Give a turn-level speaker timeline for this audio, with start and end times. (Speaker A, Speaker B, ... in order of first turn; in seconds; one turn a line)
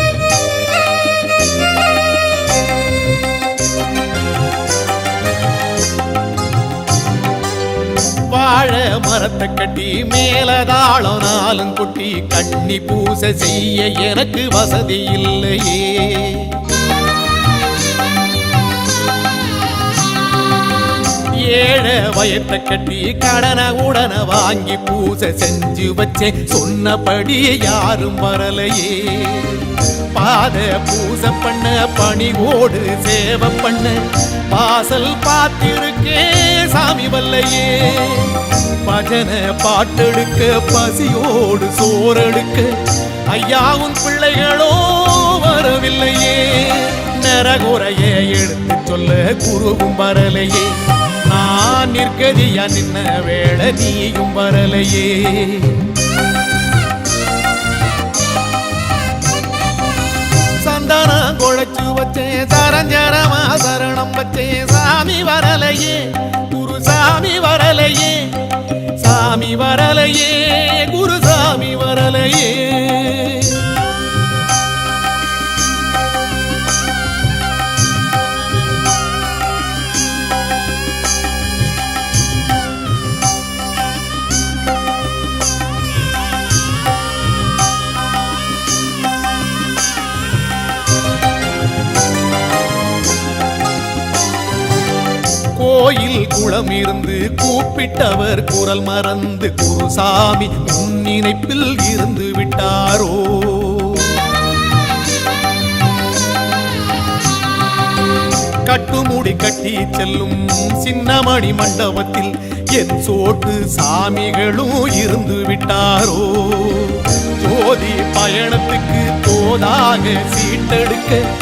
Speaker A: 8.3-16.5
Speaker A: 21.4-42.7
Speaker A: 43.3-50.7
Speaker A: 51.2-55.8
Speaker A: 60.6-68.3
Speaker A: 69.0-73.7
Speaker A: 95.6-104.2
Speaker A: 108.7-121.2